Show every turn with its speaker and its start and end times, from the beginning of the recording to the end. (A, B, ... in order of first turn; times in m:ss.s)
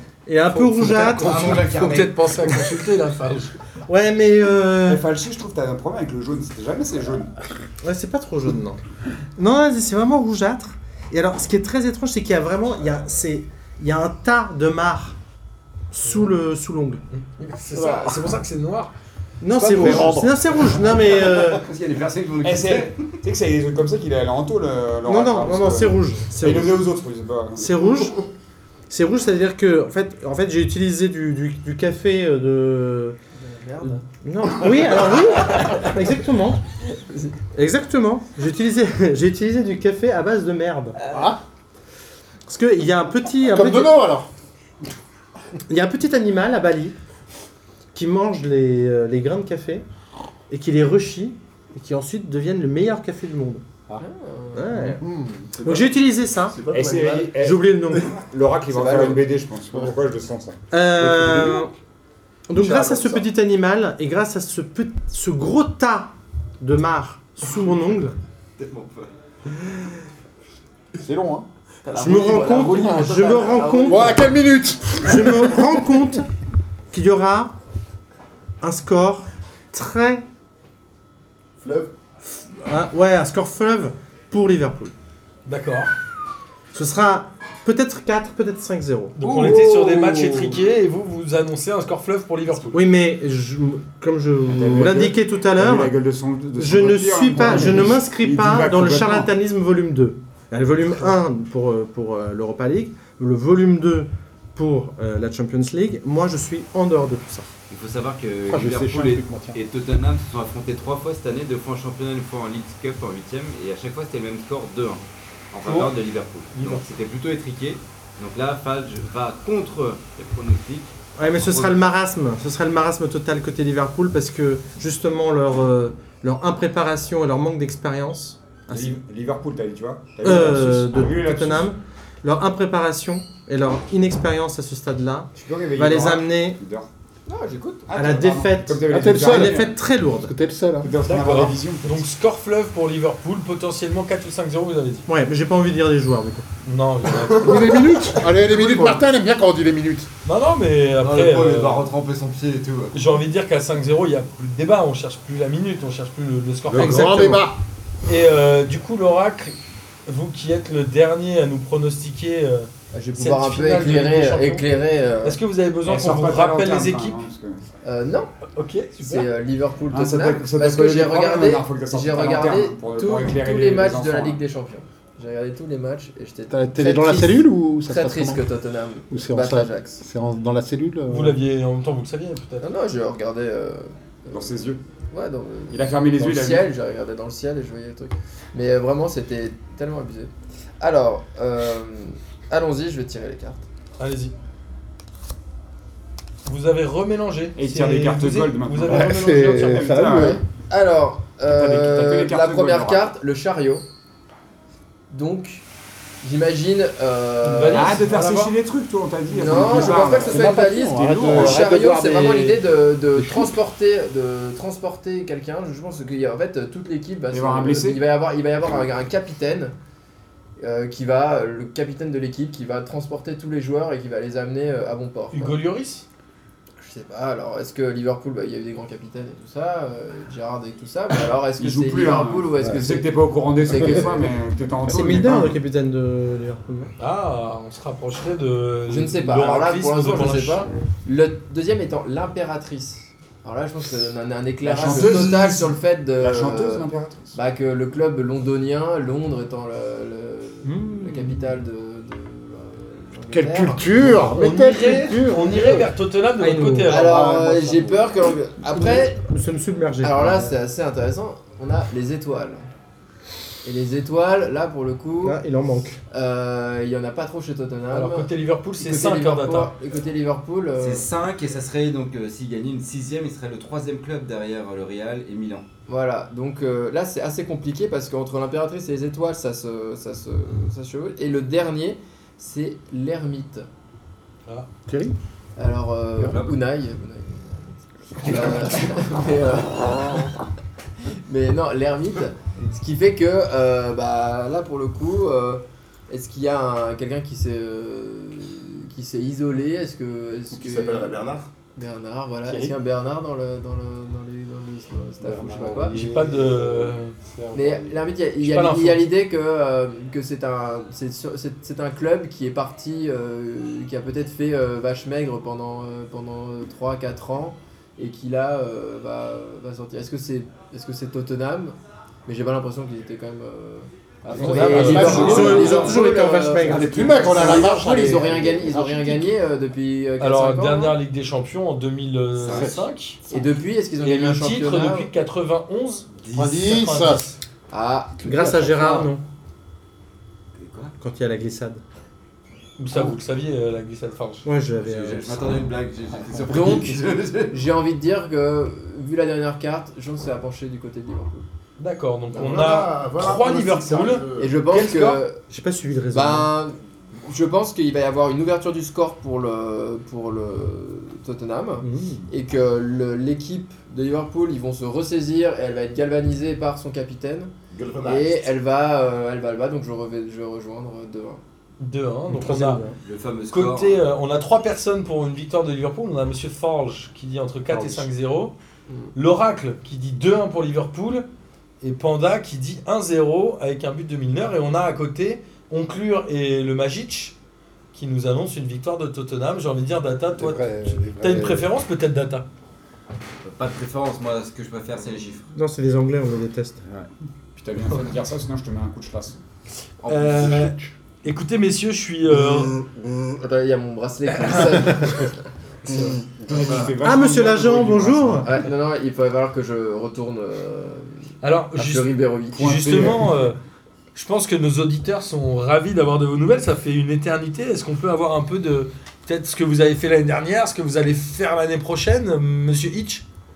0:00.2-0:01.8 A
0:00.6-0:01.6 B
0:01.0-0:03.6 C
0:01.2-0:02.1 D
0:01.4-0:01.9 E
0:03.8-0:05.0 A
0:04.8-0:07.3 E
0:07.8-0:08.8 A
0:09.4-0:15.2 A
0:15.9-0:17.0 A
0:17.1-0:18.9 C
0:19.4-0:21.6 A
0:19.5-0:20.8 E
0:19.7-0:20.1 D
0:19.9-0:20.2 B
0:20.6-0:23.2 D
0:22.4-0:27.8 E
0:25.0-0:26.7 A
0:27.6-0:28.2 A
0:28.9-0:33.2 A
0:33.4-0:34.0 F
0:33.8-0:36.6 A
0:37.5-0:41.0 A
0:41.0-0:41.3 F
0:41.1-0:41.4 B
0:42.5-0:44.0 A
0:43.5-0:44.3 B
0:45.7-0:46.9 A
0:47.9-0:49.8 A
0:50.5-0:53.6 A
0:54.0-0:54.9 F
0:54.5-0:55.0 A
0:55.0-0:55.5 B
0:55.5-0:57.4 G
0:55.6-0:56.6 A
0:56.7-1:01.7 E
0:57.4-0:58.1 A
0:58.7-0:59.2 F
1:00.7-1:01.7 A
1:02.5-1:08.2 A
1:08.6-1:09.1 D
1:11.0-1:11.4 B
1:11.8-1:14.3 F
1:11.9-1:13.8 D
1:12.0-1:14.2 A
1:13.8-1:15.9 B
1:14.9-1:16.2 A
1:16.9-1:17.5 A
1:18.6-1:20.2 A
1:21.6-1:21.9 G
1:22.5-1:24.9 A
1:25.4-1:25.9 C
1:26.7-1:29.2 A
1:29.2-1:32.8 C
1:29.2-1:30.5 E
1:32.7-1:35.9 A
1:34.4-1:39.3 E
1:36.6-1:47.5 A
1:47.7-2:01.8 D
1:48.5-1:49.6 B
1:55.6-1:55.9 C
1:56.5-1:56.9 C
2:01.2-2:09.0 A
2:08.7-2:11.7 E
2:10.2-2:16.6 A
2:15.4-2:16.9 E
2:17.3-2:17.9 F
2:17.9-2:19.8 E
2:17.9-2:20.3 A
2:18.9-2:20.9 B
2:20.8-2:22.1 E
2:21.0-2:25.1 C
2:25.1-2:26.4 A
2:26.6-2:27.6 C
2:27.4-2:30.1 B
2:28.6-2:28.9 D
2:30.2-2:31.9 C
2:31.0-2:32.9 D
2:32.9-2:37.4 C
2:36.7-2:37.1 E
2:36.7-2:37.6 B
2:38.1-2:44.6 C
2:42.9-2:45.4 F
2:45.2-2:47.2 C
2:45.8-2:47.6 E
2:47.8-2:48.3 F
2:48.5-2:49.2 C
2:49.0-3:00.0 F
2:49.9-2:54.4 E
2:56.5-2:58.4 B
2:59.1-3:01.4 B
3:01.1-3:02.7 C
3:02.6-3:13.6 F
3:04.3-3:04.8 E
3:05.7-3:06.7 E
3:14.0-3:14.3 C
3:16.4-3:20.0 C
3:17.6-3:20.4 E
3:18.8-3:20.4 B
3:20.1-3:23.8 F
3:21.4-3:23.1 E
3:25.1-3:25.6 F
3:26.2-3:28.0 F
3:27.4-3:28.5 C
3:27.7-3:31.6 E
3:29.3-3:39.7 F
3:29.6-3:32.6 B
3:33.1-3:33.6 B
3:37.3-3:38.0 E
3:40.6-3:45.6 F
3:45.3-3:46.0 C
3:46.8-3:54.4 F
3:51.6-3:55.6 E
3:54.9-3:56.9 A
3:57.0-4:00.7 C
3:58.9-4:14.2 F
4:04.6-4:07.3 E
4:04.8-4:05.6 C
4:10.6-4:11.5 A
4:13.3-4:15.9 B
4:14.2-4:17.1 C
4:16.4-4:17.1 A
4:16.8-4:19.2 F
4:16.9-4:18.1 B
4:18.7-4:20.5 A
4:20.0-4:22.6 F
4:23.6-4:25.4 F
4:25.2-4:26.0 A
4:26.1-4:31.1 F
4:27.9-4:29.7 C
4:30.8-4:35.7 D
4:35.9-4:43.6 F
4:44.9-4:45.1 B
4:45.6-4:50.3 F
4:46.2-4:46.6 D
4:51.1-5:01.2 F
5:00.5-5:01.5 G
5:01.8-5:06.1 F
5:05.2-5:08.1 B
5:05.8-5:07.2 C
5:07.5-5:31.0 F
5:08.4-5:09.0 C
5:24.3-5:25.9 E
5:24.3-5:25.8 C
5:24.7-5:26.0 B
5:24.9-5:27.2 A
5:26.6-5:29.4 B
5:30.2-5:33.2 C
5:32.4-5:32.7 D
5:33.3-5:35.1 F
5:34.0-5:37.3 C
5:36.3-5:37.2 B
5:37.7-5:39.1 F
5:38.2-5:38.9 B
5:38.2-5:39.2 A
5:40.5-5:40.9 D
5:41.0-5:41.8 A
5:42.8-5:44.5 C
5:44.4-5:45.6 A
5:44.8-5:47.6 D
5:46.4-5:51.4 F
5:51.8-5:54.2 C
5:52.3-5:54.6 G
5:54.4-5:55.4 F
5:54.7-5:55.2 E
5:55.5-5:56.5 A
5:56.1-5:56.8 F
5:57.3-6:07.5 F
6:01.8-6:02.3 A
6:07.7-6:08.5 G
6:08.0-6:11.4 F
6:11.8-6:12.8 C
6:12.3-6:13.0 A
6:13.0-6:14.0 D
6:13.5-6:18.5 C
6:17.7-6:18.0 A
6:19.1-6:21.3 C
6:21.8-6:27.3 C
6:27.9-6:32.4 C
6:30.3-6:31.7 B
6:33.4-6:35.5 D
6:35.5-6:36.8 A
6:37.6-6:39.4 E
6:40.0-6:40.7 D
6:40.0-6:42.7 C
6:40.4-6:40.9 B
6:42.4-6:45.4 F
6:44.3-6:45.0 C
6:46.4-6:48.4 E
6:47.0-6:48.5 A
6:48.4-6:51.2 F
6:51.4-6:53.6 C
6:51.7-6:53.1 F
6:52.6-6:53.3 E
6:54.1-7:03.2 C